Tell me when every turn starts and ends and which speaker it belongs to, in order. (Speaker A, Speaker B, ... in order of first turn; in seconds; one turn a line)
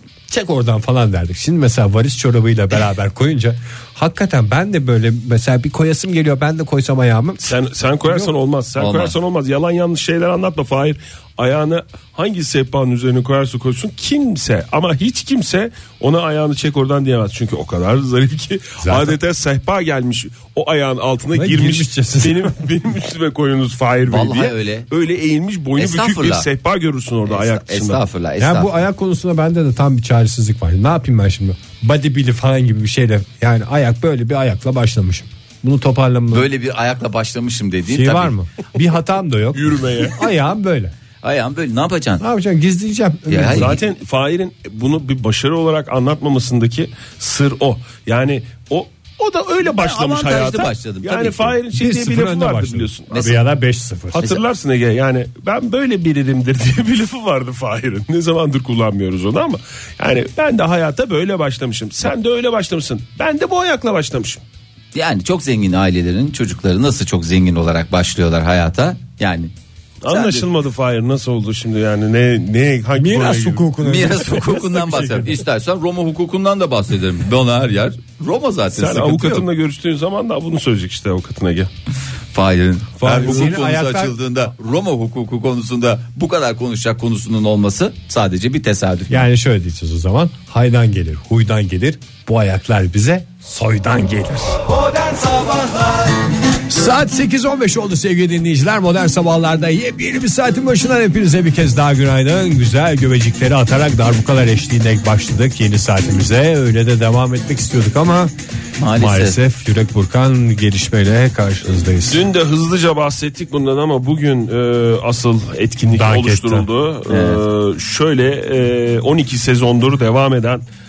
Speaker A: 0.3-7.5
Speaker B: 7.4-28.0
Speaker C: 8.8-9.1
Speaker A: 18.8-19.2
Speaker A: 21.3-22.6
Speaker C: 24.1-24.9
Speaker C: 25.8-26.5
Speaker C: 27.3-28.8
Speaker A: 28.4-36.5
Speaker C: 36.3-38.3
Speaker A: 37.9-40.9
Speaker B: 39.5-40.2
Speaker C: 41.2-42.2
Speaker A: 42.2-43.7
Speaker C: 43.3-43.8
Speaker B: 43.5-53.2
Speaker C: 49.6-51.6
Speaker A: 51.7-54.2
Speaker C: 53.1-53.4
Speaker B: 54.1-64.4
Speaker C: 64.9-69.5
Speaker B: 70.0-73.7
Speaker C: 70.1-70.5
Speaker A: 73.0-75.4
Speaker C: 73.8-79.5
Speaker B: 78.7-81.7
Speaker C: 82.3-89.2
Speaker A: 83.0-84.5
Speaker B: 83.2-83.5
Speaker A: 89.1-94.7
Speaker A: 96.7-108.3
Speaker C: 108.8-109.4
Speaker A: 108.9-112.2
Speaker B: 112.1-120.6
Speaker A: 115.8-116.7
Speaker C: 117.1-117.4